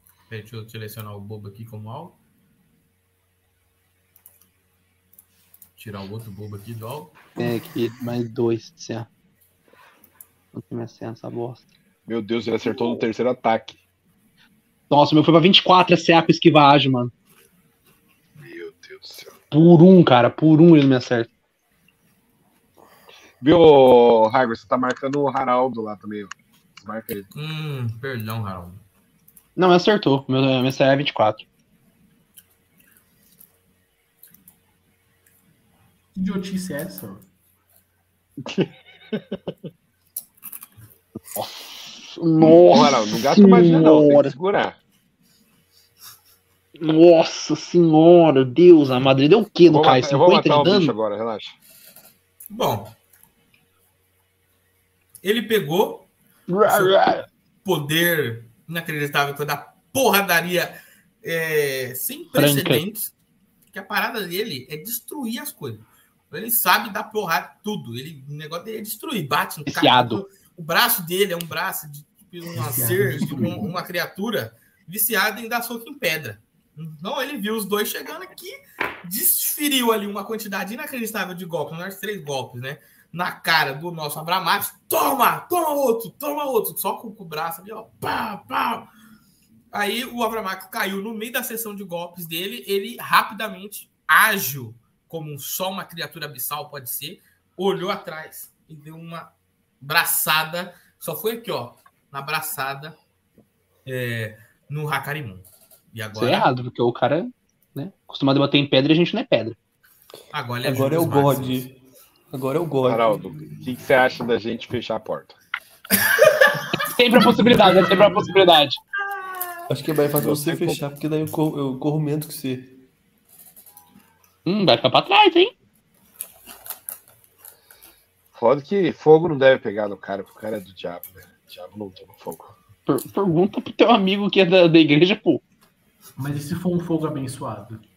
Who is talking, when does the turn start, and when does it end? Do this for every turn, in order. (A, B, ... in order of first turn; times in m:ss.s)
0:00.3-0:02.2 A
0:05.8-0:07.2 A
0:07.4-0:09.1 B
0:10.5-0:11.6 B
0:12.1-0:13.8 C
0:14.9-0:17.1 B
0:18.4-0:19.4 C
0:19.5-0:21.3 B
0:23.4-0:27.3 C
0:27.3-0:28.8 A
0:29.6-0:31.4 B
0:36.2-0:37.3 D
0:38.4-0:39.4 C
0:41.4-0:44.3 B
0:42.4-0:44.8 C
0:46.8-0:50.9 B
0:49.7-0:51.6 C
0:52.5-0:52.9 A
0:55.2-0:56.1 A
0:56.5-0:57.3 B
0:56.7-0:57.0 A
0:57.6-1:03.1 A
1:02.3-1:02.8 B
1:03.7-1:28.9 A
1:09.7-1:10.2 B
1:12.5-1:13.8 D
1:29.7-1:43.0 A
1:43.8-1:46.5 A
1:46.2-1:49.6 B
1:50.3-1:51.7 A
1:50.6-1:51.8 E
1:52.3-1:53.3 E
1:52.8-1:55.4 C
1:56.8-1:58.8 B
1:57.2-1:58.3 D
1:59.7-2:02.8 E
2:00.2-2:00.8 C
2:04.5-2:05.5 B
2:08.3-2:12.5 C
2:12.9-2:15.4 B
2:16.2-2:17.8 D